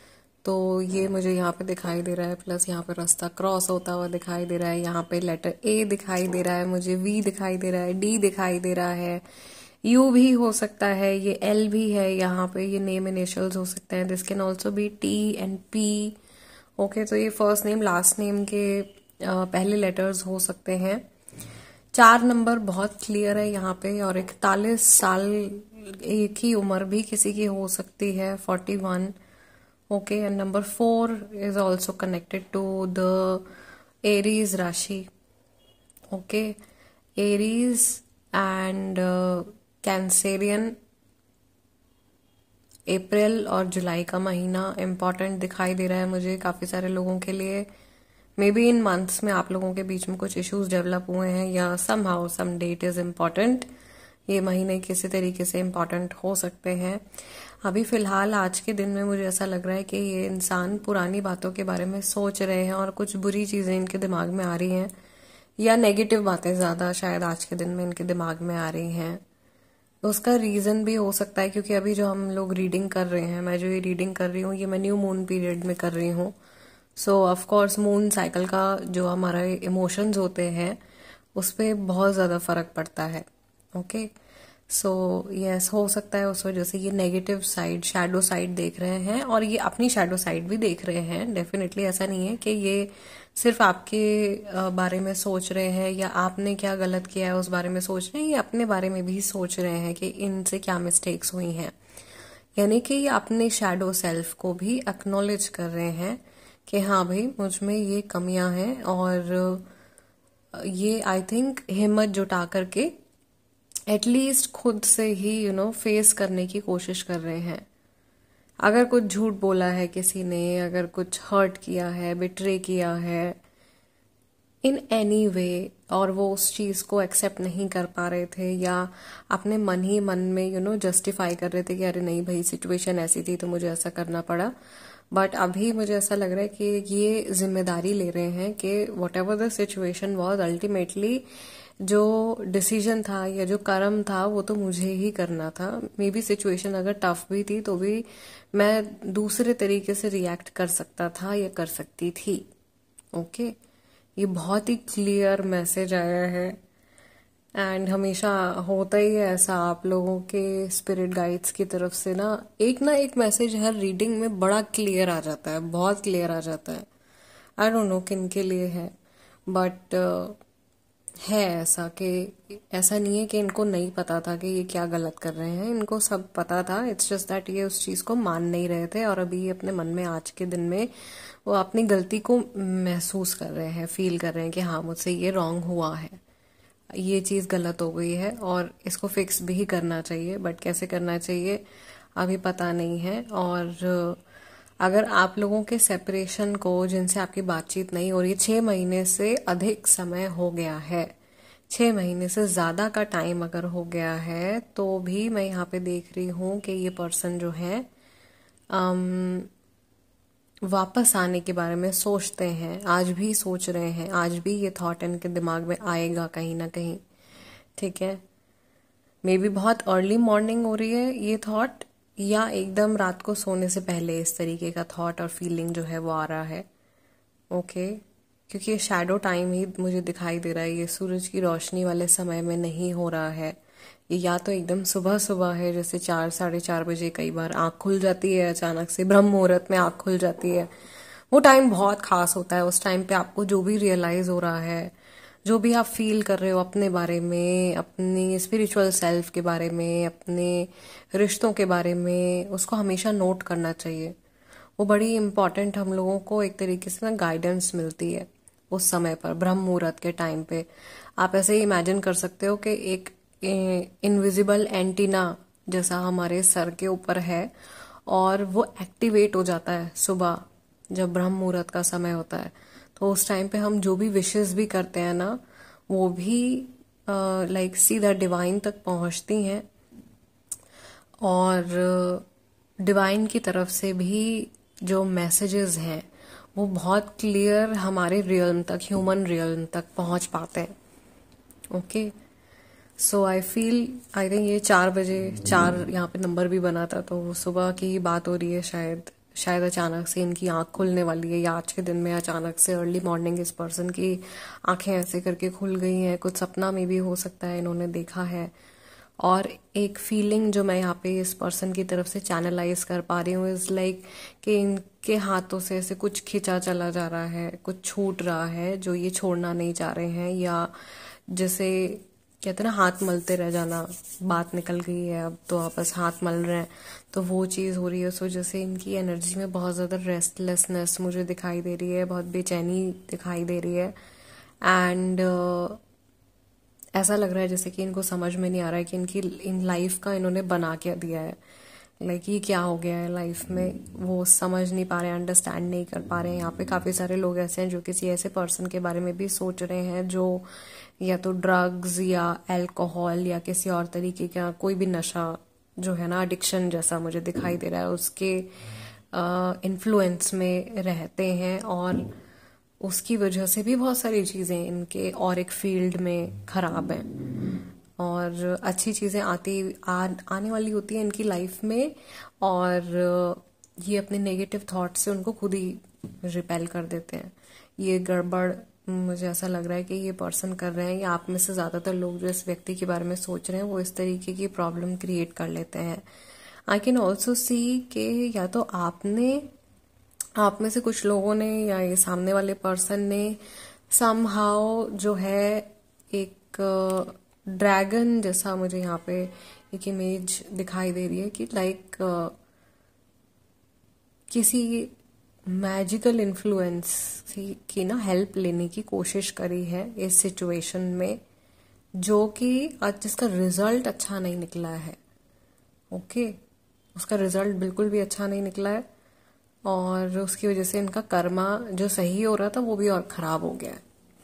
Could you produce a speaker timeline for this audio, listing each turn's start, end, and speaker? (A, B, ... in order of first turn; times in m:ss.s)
0:00.4-0:09.2 A
0:09.8-0:16.2 A
0:16.8-0:21.0 A
0:21.9-0:29.1 A
0:29.9-0:33.5 A
0:34.0-0:35.1 A
0:36.1-0:36.6 A
0:37.2-0:40.8 A
0:42.9-0:47.7 A
0:48.4-0:53.7 A
0:54.3-0:57.0 A
0:57.6-1:04.9 A
1:05.6-1:09.2 A
1:10.0-1:16.3 A
1:17.0-1:20.8 A
1:21.3-1:24.1 A
1:24.7-1:41.7 A
1:42.6-1:49.7 A
1:50.5-1:52.9 A
1:53.9-1:57.6 A
1:58.6-2:03.4 A
2:04.6-2:14.5 A
2:15.1-2:21.2 A
2:21.8-2:32.4 A
2:33.1-2:33.5 A
2:34.2-2:36.6 A
2:37.6-2:46.9 A
2:47.6-2:48.9 A
2:49.5-2:50.4 A
2:51.2-3:06.2 A
3:06.9-3:11.6 A
3:12.2-3:14.2 A
3:14.8-3:21.1 A
3:21.7-3:27.9 A
3:28.7-3:29.5 A
3:30.7-3:37.0 A
3:37.8-3:38.2 A
3:39.2-3:46.6 A
3:47.5-3:53.6 A
3:54.1-4:00.7 A
4:01.3-4:04.9 A
4:05.4-4:14.2 A
4:14.8-4:20.7 A
4:21.2-4:27.5 A
4:28.1-4:39.6 A
4:41.2-4:42.2 A
4:42.8-4:50.7 A
4:51.7-4:52.1 A
4:53.0-5:08.5 A
5:09.2-5:20.7 A
5:21.3-5:33.9 A
5:34.6-5:35.8 A
5:36.9-5:41.4 A
5:42.0-5:50.5 A
5:51.0-5:58.5 A
5:59.1-6:02.1 A
6:02.8-6:07.1 A
6:08.0-6:26.0 A
6:26.7-6:29.5 A
6:30.4-6:33.4 A
6:33.9-6:42.3 A
6:44.3-6:44.9 A
6:45.5-6:51.2 A
6:52.0-6:55.0 A
6:55.9-6:56.4 A
6:56.9-6:58.8 A
6:59.6-7:03.8 A